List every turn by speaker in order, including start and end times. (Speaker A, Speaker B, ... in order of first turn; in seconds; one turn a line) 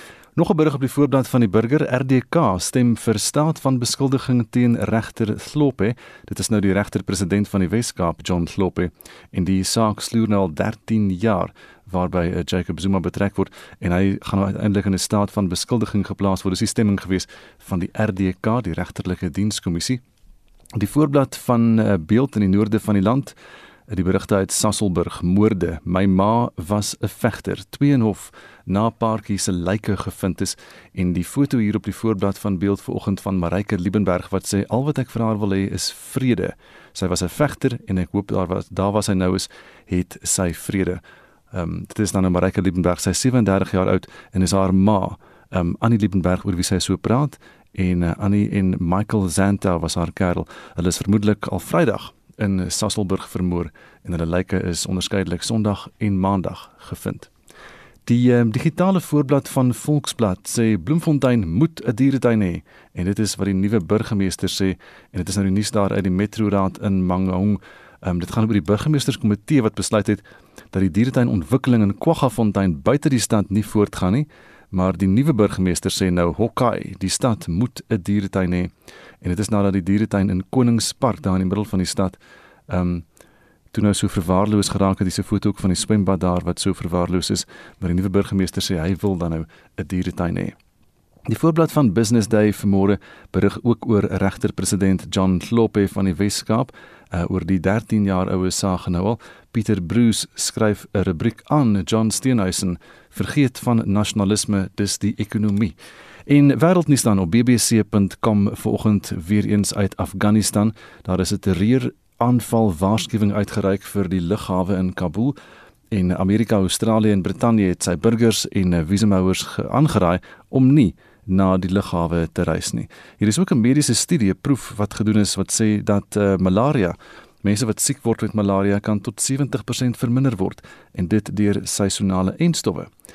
Speaker A: 0.3-20.0
Speaker A: 20.8-23.3
Speaker A: 23.9-41.0
Speaker A: 41.5-57.3
Speaker A: 58.0-78.7
Speaker A: 79.2-82.2
Speaker A: 82.7-83.0
Speaker A: 83.7-90.5
Speaker A: 91.3-105.7
Speaker A: 106.3-115.3
Speaker A: 115.9-132.9